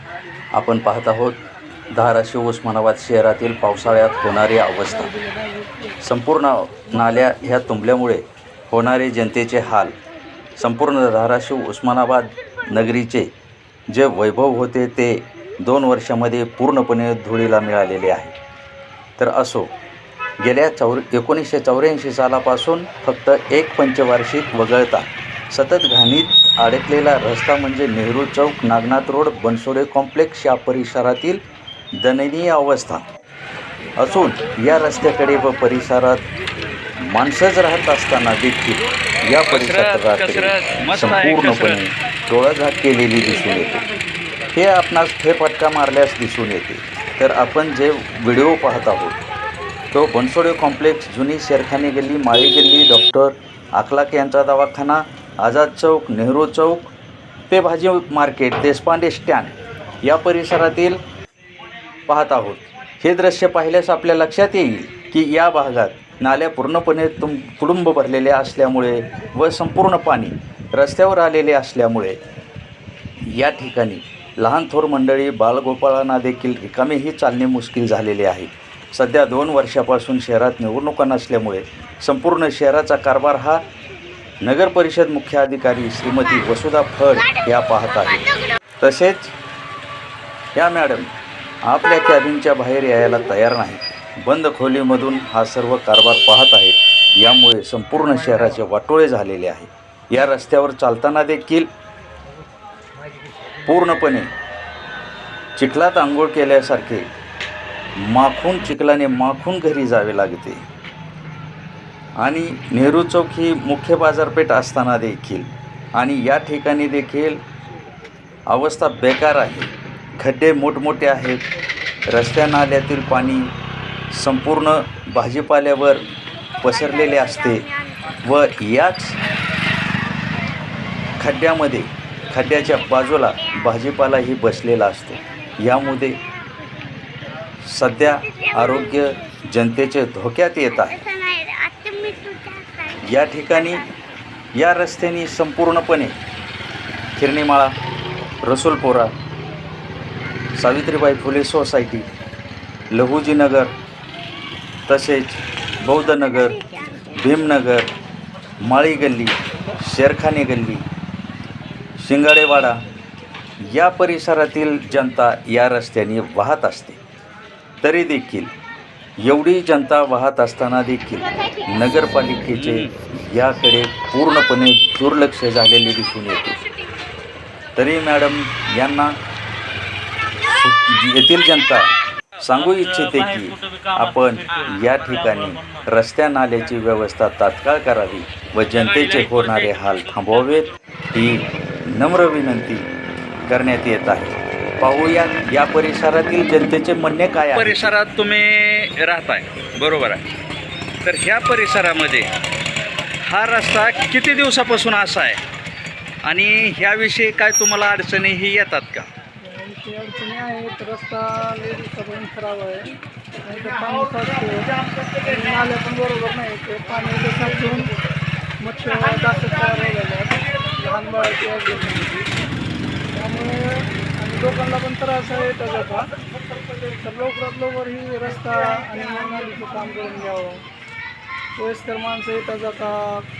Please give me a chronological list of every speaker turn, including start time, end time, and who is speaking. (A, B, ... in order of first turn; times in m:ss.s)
0:00.5-0:01.4 A
0:01.9-0:05.1 A
0:04.8-0:06.0 B
0:06.0-0:10.0 A
0:10.6-0:13.3 A
0:13.9-0:18.3 A
0:19.2-0:19.7 A
0:20.4-0:31.4 A
0:32.0-0:33.0 A
0:34.0-0:36.2 A
0:37.0-0:43.8 A
0:39.5-0:41.8 C
0:44.5-0:49.2 A
0:49.9-0:56.9 A
0:57.5-1:01.0 A
1:02.1-1:12.2 A
1:13.3-1:23.6 A
1:24.4-1:29.3 A
1:30.5-1:31.1 A
1:31.6-1:41.7 A
1:43.6-1:44.3 A
1:45.6-1:47.1 A
1:48.0-1:50.6 A
1:52.2-1:57.4 A
1:58.5-2:01.4 A
2:02.1-2:03.5 A
2:04.1-2:06.0 A
2:06.6-2:09.2 A
2:11.2-2:16.2 A
2:17.6-2:21.1 A
2:23.0-2:23.9 A
2:24.6-2:26.2 A
2:27.2-2:27.7 A
2:28.4-2:29.1 A
2:30.6-2:32.0 A
2:32.9-2:33.7 A
2:34.9-2:37.9 A
2:38.6-2:40.8 A
2:42.0-2:42.7 A
2:43.6-2:47.0 A
2:47.8-2:48.5 A
2:49.2-2:56.6 A
2:52.5-2:52.9 C
2:57.8-2:59.1 A
3:00.4-3:01.9 A
3:02.4-3:12.9 A
3:09.0-3:09.7 C
3:13.5-3:17.9 A
3:17.5-3:20.2 C
3:21.0-3:22.3 C
3:23.2-3:25.4 C
3:26.3-3:28.8 C
3:26.8-3:27.2 A
3:29.4-3:37.9 B
3:38.6-3:42.3 B
3:43.1-3:46.1 B
3:46.8-3:50.6 B
3:51.6-3:53.2 B